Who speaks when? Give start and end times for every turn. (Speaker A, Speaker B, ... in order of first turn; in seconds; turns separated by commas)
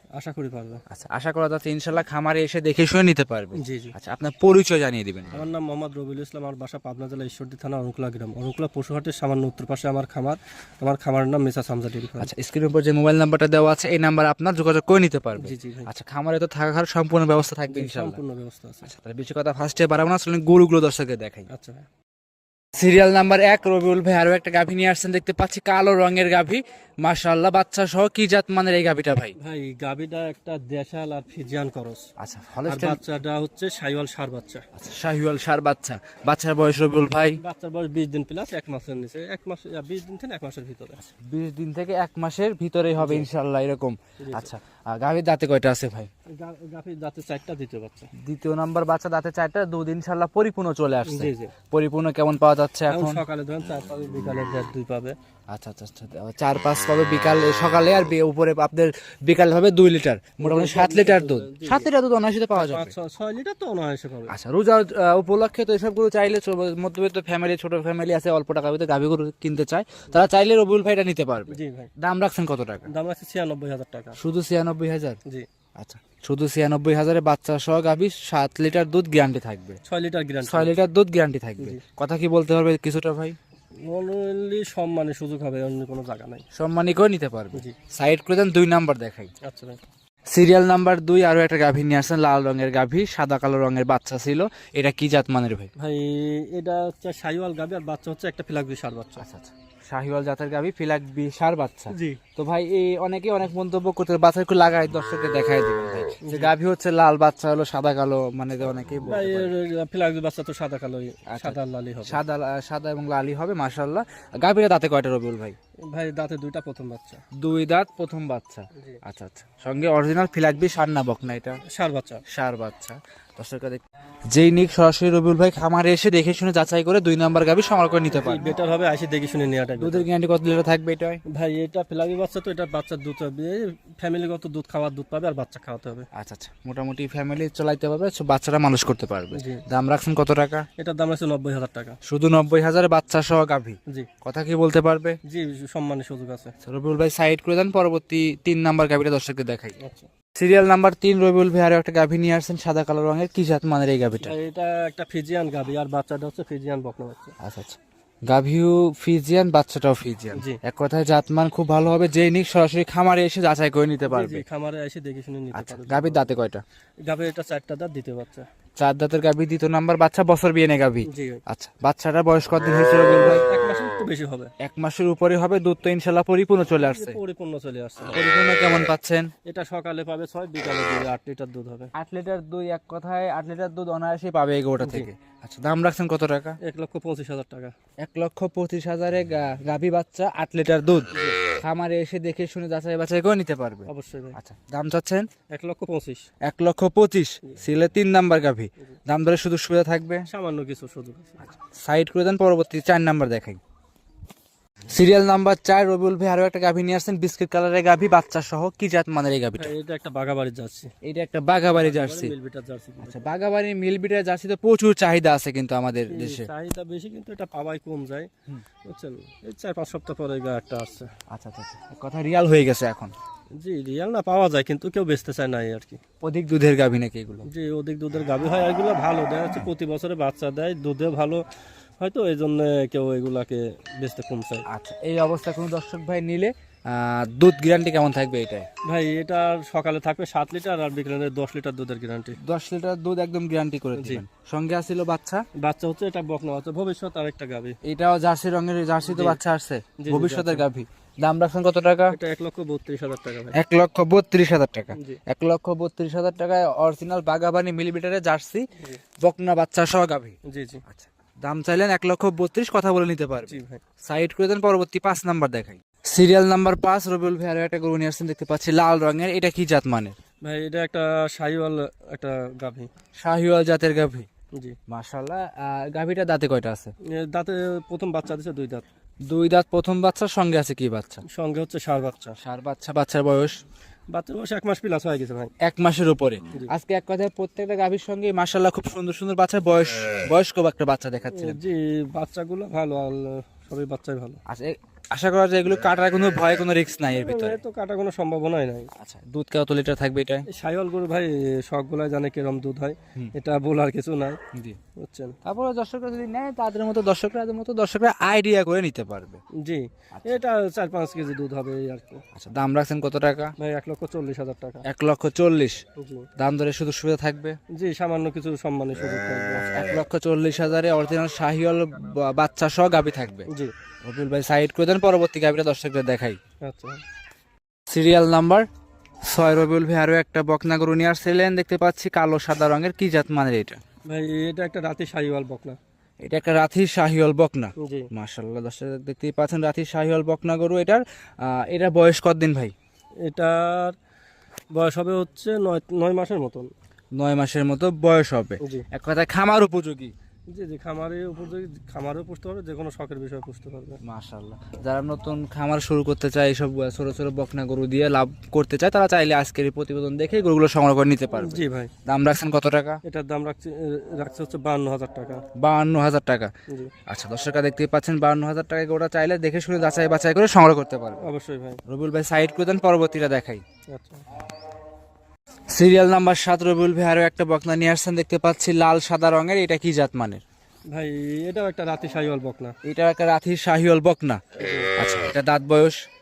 Speaker A: 0.2-0.8, Speaker B: 0.9-5.4, Speaker A: 3.5-3.9, Speaker A: 5.3-12.3, Speaker B: 12.2-18.2, Speaker A: 15.4-15.9, Speaker A: 17.7-18.9, Speaker B: 18.9-21.5, Speaker A: 21.5-21.9, Speaker B: 22.7-29.3, Speaker A: 29.4-32.1, Speaker B: 32.2-33.0, Speaker A: 32.7-34.6, Speaker B: 34.8-37.4, Speaker A: 37.4-41.0, Speaker B: 41.0-46.1, Speaker A: 43.0-43.3, Speaker A: 44.2-44.5, Speaker A: 46.3-48.1, Speaker B: 48.2-53.2, Speaker A: 51.0-51.5, Speaker A: 52.9-55.1, Speaker B: 55.5-62.9, Speaker A: 60.4-61.9, Speaker A: 62.5-64.3, Speaker B: 64.3-72.9, Speaker A: 71.5-71.9, Speaker A: 72.9-74.2, Speaker B: 74.2-75.2, Speaker B: 75.8-79.8, Speaker A: 79.8-80.7, Speaker B: 80.4-83.4, Speaker A: 83.8-86.4, Speaker B: 86.5-89.3, Speaker A: 89.4-89.8, Speaker B: 90.3-95.7, Speaker A: 95.8-99.2, Speaker B: 99.2-109.5, Speaker A: 101.9-102.2, Speaker A: 106.2-106.5, Speaker A: 109.0-112.2, Speaker B: 111.3-115.5, Speaker A: 115.9-117.2, Speaker B: 117.4-121.6, Speaker A: 118.7-119.0, Speaker A: 121.7-122.2, Speaker B: 122.3-128.6, Speaker A: 128.1-130.1, Speaker B: 129.8-131.2, Speaker A: 131.3-136.1, Speaker B: 136.1-140.7, Speaker A: 139.3-139.6, Speaker A: 140.8-142.0, Speaker B: 142.1-145.2, Speaker A: 145.3-146.5, Speaker B: 146.6-149.8, Speaker A: 149.8-150.1, Speaker B: 150.3-154.4, Speaker A: 154.2-157.3, Speaker B: 157.4-164.4, Speaker A: 160.3-160.6, Speaker A: 164.0-166.3, Speaker B: 165.5-166.6, Speaker A: 167.0-168.4, Speaker B: 168.8-173.4, Speaker A: 171.0-171.4, Speaker A: 173.1-174.5, Speaker B: 174.6-177.2, Speaker A: 176.8-178.2, Speaker B: 178.1-179.3, Speaker A: 179.4-181.9, Speaker B: 181.9-186.6, Speaker A: 184.8-185.1, Speaker A: 186.6-187.7, Speaker B: 188.0-195.3, Speaker A: 191.1-191.4, Speaker A: 193.8-194.4, Speaker A: 195.5-196.3, Speaker B: 196.4-200.3, Speaker A: 200.3-201.5, Speaker B: 201.5-203.6, Speaker B: 204.9-209.7, Speaker A: 209.6-210.9, Speaker B: 211.0-212.3, Speaker A: 211.7-213.2, Speaker B: 213.0-216.5, Speaker A: 216.1-218.3, Speaker A: 218.8-221.1, Speaker B: 221.3-223.1, Speaker A: 223.6-226.0, Speaker B: 226.2-227.5, Speaker A: 227.4-231.4, Speaker A: 232.0-234.6, Speaker B: 234.7-238.7, Speaker A: 238.8-242.4, Speaker B: 242.4-245.4, Speaker A: 243.9-244.2, Speaker A: 245.6-247.8, Speaker B: 247.8-252.2, Speaker A: 249.1-249.4, Speaker A: 250.0-250.7, Speaker A: 252.1-253.6, Speaker B: 253.5-258.7, Speaker B: 259.2-270.1, Speaker A: 260.4-260.8, Speaker A: 263.5-263.8, Speaker A: 270.4-272.9, Speaker B: 273.2-274.3, Speaker B: 274.9-276.9, Speaker A: 277.1-278.9, Speaker B: 279.3-281.2, Speaker A: 281.2-282.4, Speaker B: 282.4-283.6, Speaker A: 284.1-285.5, Speaker B: 285.6-291.6, Speaker A: 291.3-294.4, Speaker B: 294.5-297.6, Speaker A: 297.1-298.9, Speaker B: 299.0-300.4, Speaker A: 300.5-304.4, Speaker B: 304.5-304.8, Speaker A: 305.0-305.4, Speaker B: 305.4-309.4, Speaker A: 309.6-312.2, Speaker B: 312.3-313.5, Speaker A: 313.6-314.8, Speaker B: 314.9-315.8, Speaker A: 316.0-316.3, Speaker B: 316.4-317.6, Speaker A: 317.7-319.7, Speaker B: 319.6-323.5, Speaker B: 324.0-326.4, Speaker A: 326.6-327.0, Speaker B: 327.9-328.7, Speaker B: 329.3-333.8, Speaker A: 334.1-335.8, Speaker B: 336.2-342.7, Speaker A: 337.8-338.1, Speaker A: 343.2-344.0, Speaker A: 344.7-346.7, Speaker B: 347.2-350.1, Speaker A: 350.5-354.0, Speaker B: 354.0-363.0, Speaker A: 361.4-361.9, Speaker A: 363.0-365.4, Speaker B: 365.6-366.5, Speaker B: 367.1-371.3, Speaker A: 371.2-371.8, Speaker B: 371.9-373.6, Speaker A: 373.9-374.2, Speaker B: 375.7-380.4, Speaker A: 380.9-382.7, Speaker B: 382.8-384.4, Speaker A: 384.6-384.9, Speaker B: 385.0-386.0